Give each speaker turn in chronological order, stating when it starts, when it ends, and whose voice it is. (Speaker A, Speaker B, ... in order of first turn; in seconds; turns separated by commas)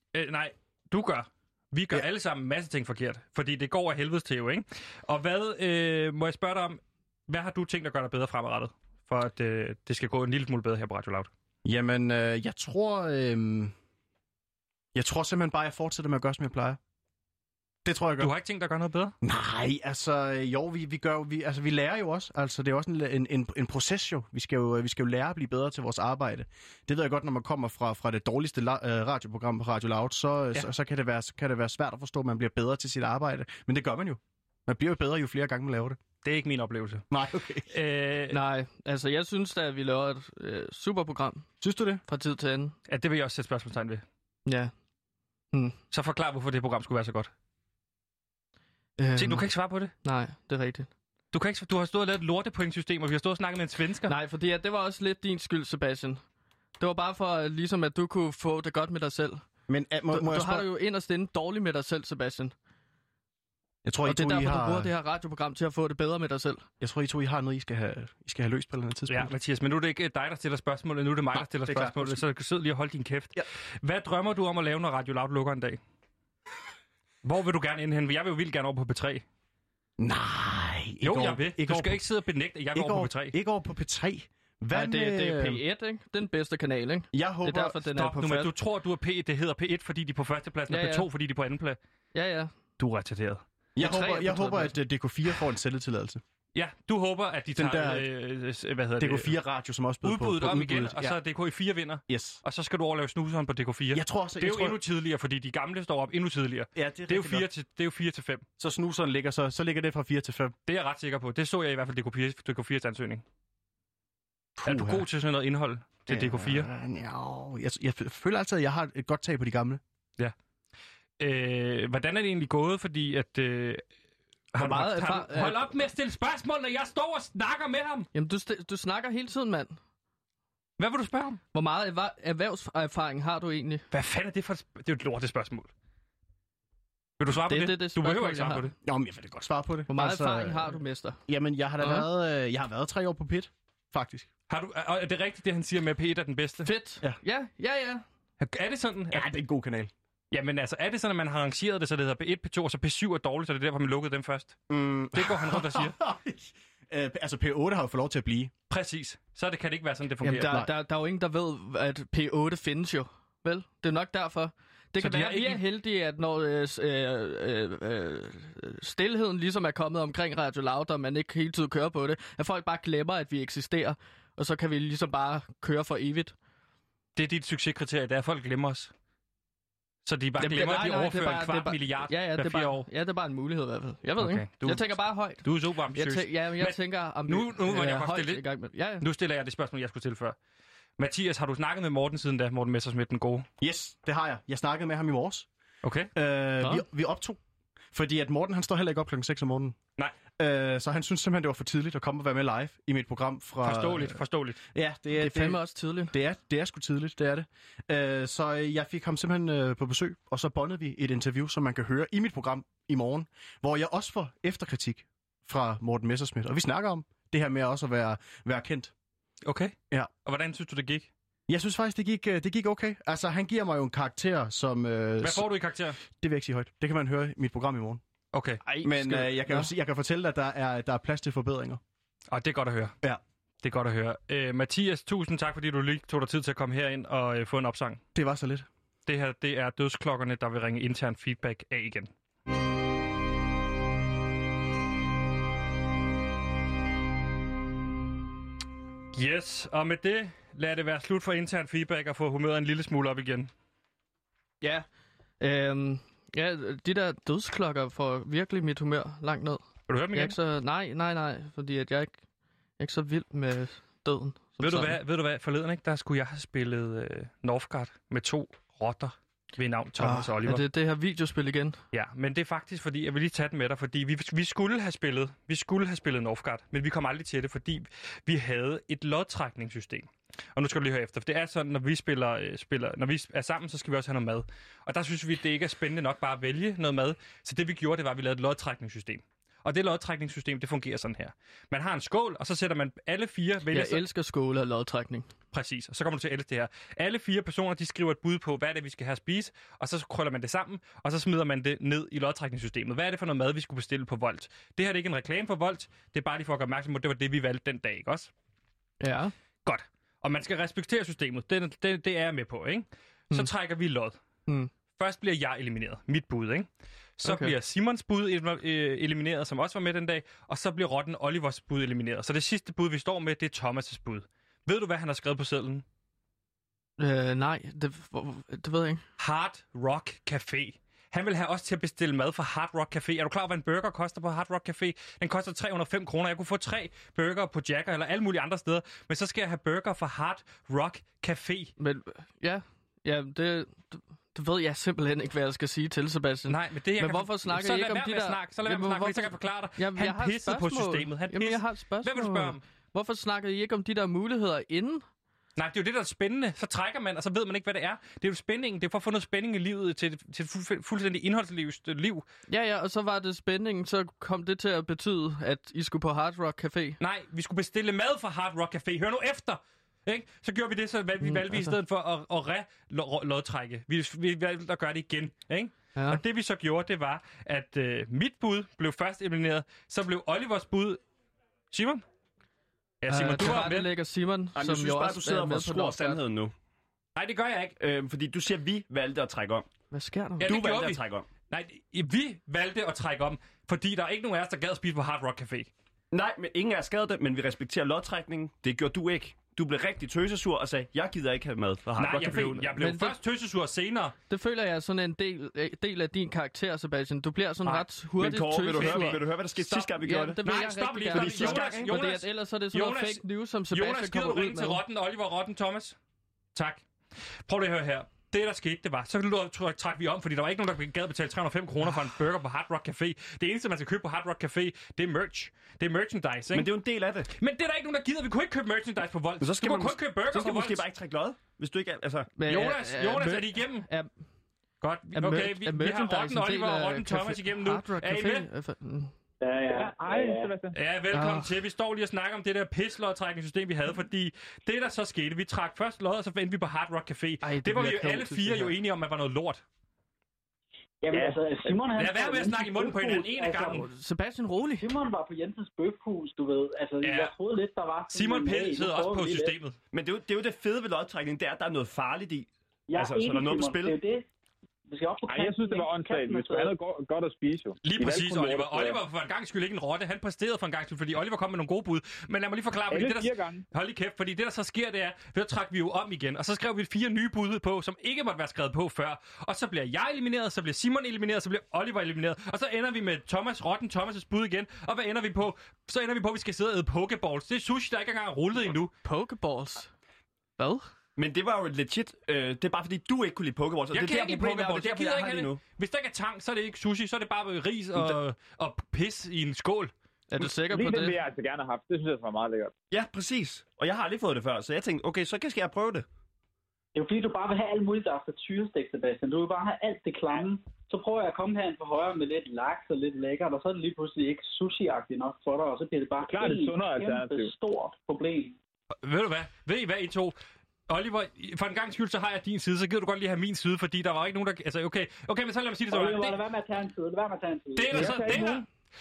Speaker A: 0.1-11.3, Speaker B: 11.7-13.7, Speaker B: 14.9-16.8, Speaker B: 17.9-18.3, Speaker A: 18.2-19.1, Speaker B: 19.2-36.0, Speaker A: 36.2-37.1, Speaker B: 37.1-37.7, Speaker A: 37.6-38.4, Speaker C: 38.3-41.5, Speaker B: 41.6-42.0, Speaker C: 42.1-42.8, Speaker A: 42.9-44.0, Speaker C: 44.5-44.7, Speaker C: 45.5-45.8, Speaker A: 45.9-47.3, Speaker C: 49.0-49.5, Speaker A: 49.2-49.9, Speaker C: 50.0-50.9, Speaker A: 51.3-54.1, Speaker C: 54.1-56.2, Speaker C: 56.8-59.5, Speaker B: 59.7-60.7, Speaker C: 60.1-62.5, Speaker B: 63.9-64.9, Speaker C: 64.0-66.7, Speaker B: 66.8-69.3, Speaker A: 69.1-75.8, Speaker B: 71.4-72.2, Speaker A: 77.2-79.2, Speaker B: 80.0-82.0, Speaker A: 81.0-83.3, Speaker B: 82.7-85.6, Speaker C: 84.7-88.5, Speaker B: 87.1-87.8, Speaker A: 87.9-91.8, Speaker C: 90.7-91.1, Speaker C: 92.1-92.5, Speaker A: 92.8-93.4, Speaker B: 93.8-96.2, Speaker C: 93.8-94.8, Speaker A: 96.5-99.3, Speaker B: 97.5-98.1, Speaker B: 99.0-101.2, Speaker A: 100.0-108.5, Speaker B: 102.1-102.4, Speaker B: 103.9-104.8, Speaker B: 106.8-107.5, Speaker B: 108.6-110.5, Speaker A: 110.7-113.2, Speaker B: 114.6-115.0, Speaker A: 114.7-116.7, Speaker B: 116.1-119.8, Speaker A: 121.2-123.8, Speaker A: 124.5-128.1, Speaker C: 124.6-125.7, Speaker C: 128.1-129.8, Speaker A: 130.8-131.4, Speaker C: 131.5-133.8, Speaker A: 133.9-135.7, Speaker A: 137.2-138.8, Speaker C: 137.5-138.7, Speaker B: 138.8-144.3, Speaker C: 139.9-141.2, Speaker C: 141.8-142.1, Speaker A: 144.5-146.7, Speaker C: 146.6-148.0, Speaker A: 148.4-149.3, Speaker B: 149.1-149.9, Speaker A: 150.3-154.6, Speaker B: 154.7-158.5, Speaker A: 155.1-155.9, Speaker A: 158.7-160.6, Speaker B: 160.2-160.7, Speaker C: 160.2-176.3, Speaker A: 165.0-165.6, Speaker A: 177.2-178.9, Speaker A: 180.1-182.9, Speaker C: 180.4-189.1, Speaker A: 184.2-188.4, Speaker A: 189.0-190.4, Speaker A: 191.0-193.5, Speaker B: 193.6-195.5, Speaker A: 195.8-196.1, Speaker B: 196.2-197.4, Speaker B: 197.9-199.8, Speaker B: 200.4-204.2, Speaker A: 203.6-204.6, Speaker B: 204.8-218.9, Speaker C: 205.2-206.2, Speaker A: 219.4-221.1, Speaker B: 221.5-225.4, Speaker A: 225.2-226.0, Speaker B: 226.2-228.0, Speaker A: 228.3-228.6, Speaker C: 228.7-229.7, Speaker B: 228.8-231.8, Speaker A: 232.3-232.9, Speaker A: 233.6-238.0, Speaker B: 238.2-238.7, Speaker A: 239.1-242.1, Speaker A: 249.1-253.5, Speaker C: 254.6-254.9, Speaker C: 255.4-259.6, Speaker A: 259.9-260.4, Speaker C: 260.1-262.2, Speaker C: 262.8-265.0, Speaker A: 264.6-270.6, Speaker C: 270.0-271.8, Speaker A: 271.9-294.0, Speaker C: 293.7-295.3, Speaker A: 295.5-308.3, Speaker C: 309.0-309.3, Speaker A: 309.6-314.2, Speaker A: 315.0-325.9, Speaker C: 317.2-317.5, Speaker C: 327.0-329.0, Speaker A: 329.2-341.7, Speaker C: 341.8-355.1, Speaker A: 346.5-352.6, Speaker A: 355.6-362.3, Speaker C: 362.5-367.0, Speaker A: 367.0-381.0, Speaker C: 371.2-371.8, Speaker C: 376.0-376.2, Speaker A: 381.7-382.1, Speaker A: 383.0-383.9, Speaker C: 383.1-386.2, Speaker D: 384.6-386.5, Speaker A: 387.1-387.8, Speaker D: 387.8-389.7, Speaker C: 389.9-390.6, Speaker A: 390.4-395.7, Speaker D: 390.4-391.3, Speaker D: 396.1-402.9, Speaker A: 402.0-404.1, Speaker C: 402.8-403.2, Speaker C: 404.3-414.8, Speaker D: 408.2-410.4, Speaker A: 408.7-409.4, Speaker A: 410.4-416.0, Speaker D: 411.1-411.9, Speaker A: 416.5-426.7, Speaker D: 426.5-427.3, Speaker A: 427.3-430.9, Speaker D: 429.4-432.3, Speaker C: 432.4-434.1, Speaker A: 432.5-433.9, Speaker A: 434.8-438.5, Speaker C: 435.1-439.1, Speaker E: 439.4-440.5, Speaker F: 439.7-440.8, Speaker A: 440.7-449.6, Speaker C: 441.1-441.6, Speaker C: 447.4-448.7, Speaker E: 451.0-453.9, Speaker A: 451.9-453.9, Speaker C: 453.7-454.9, Speaker E: 454.8-459.6, Speaker A: 457.0-457.3, Speaker A: 458.1-459.8, Speaker D: 459.9-464.0, Speaker E: 462.9-464.3, Speaker E: 464.9-466.8, Speaker F: 465.3-469.0, Speaker A: 467.8-488.9, Speaker F: 472.9-473.6, Speaker C: 489.0-489.9, Speaker C: 490.6-490.9, Speaker D: 491.2-495.6, Speaker A: 493.9-499.9, Speaker C: 500.3-501.2, Speaker F: 500.6-502.7, Speaker D: 502.9-506.1, Speaker E: 506.9-518.6, Speaker F: 516.3-517.5, Speaker A: 519.0-520.4, Speaker A: 520.9-526.4, Speaker E: 525.9-528.4, Speaker A: 527.8-528.6, Speaker F: 528.0-528.6